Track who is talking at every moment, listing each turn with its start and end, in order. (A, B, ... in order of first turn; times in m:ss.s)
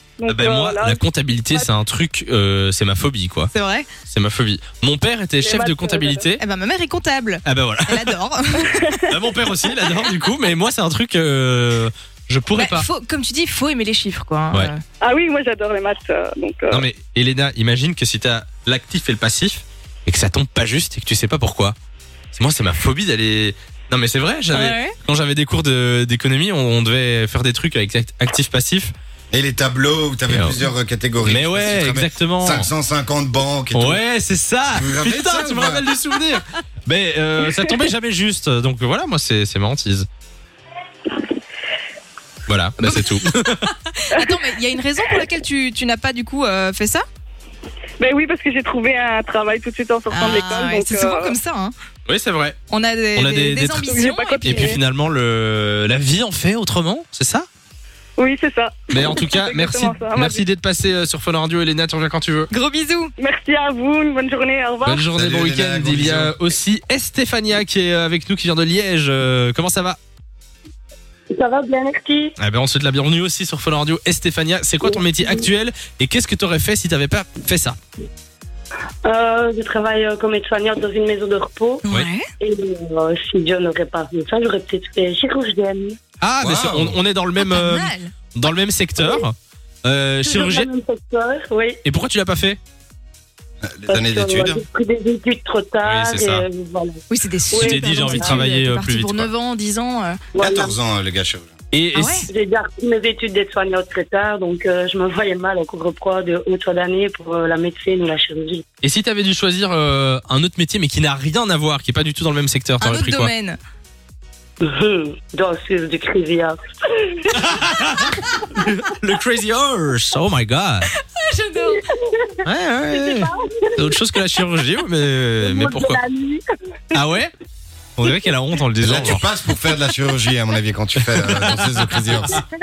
0:00.2-0:01.7 A
0:00.3-0:03.5 B
0:03.5-0:03.9 C
0:04.0-0:06.4 B
0:05.4-0:06.3 A
0:06.4-0:09.0 C
0:07.4-0:08.2 B
0:08.8-0:09.1 A
0:09.1-0:12.9 B
0:12.5-0:14.8 C
0:15.0-0:16.9 A
0:16.7-0:21.8 B
0:22.3-0:28.9 B
0:24.5-0:25.0 C
0:29.3-0:34.0 D
0:30.3-0:30.7 B
0:31.2-0:32.7 B
0:33.7-0:40.1 B
0:34.7-0:35.9 D
0:42.5-0:43.7 B
0:44.0-0:47.0 C
0:48.0-0:51.4 A
0:50.1-0:51.7 C
0:52.1-0:52.6 B
0:52.7-0:54.7 C
0:53.1-0:57.5 B
0:53.8-0:54.8 A
0:58.2-1:00.4 A
0:58.9-1:02.5 B
1:02.5-1:03.1 C
1:03.2-1:05.1 A
1:04.8-1:10.0 B
1:05.1-1:06.4 D
1:11.3-1:12.3 E
1:12.4-1:17.8 B
1:19.0-1:21.8 E
1:21.8-1:22.3 C
1:22.4-1:26.0 E
1:26.2-1:30.7 B
1:26.4-1:27.0 D
1:27.4-1:28.1 C
1:30.2-1:31.8 E
1:31.8-1:32.6 B
1:33.6-1:34.6 D
1:33.9-1:38.4 E
1:35.8-1:36.4 B
1:37.1-1:40.2 C
1:37.6-1:39.3 B
1:40.3-1:40.8 E
1:40.4-1:41.5 D
1:41.7-1:42.3 B
1:41.9-1:42.2 C
1:42.3-1:48.6 E
1:48.8-1:53.3 B
1:52.8-1:53.6 C
1:54.6-1:57.3 E
1:57.3-2:00.9 B
2:01.1-2:01.9 C
2:02.4-2:06.0 B
2:02.9-2:04.0 E
2:05.4-2:06.4 E
2:06.9-2:07.3 B
2:08.0-2:09.2 B
2:08.8-2:12.4 D
2:11.1-2:12.2 B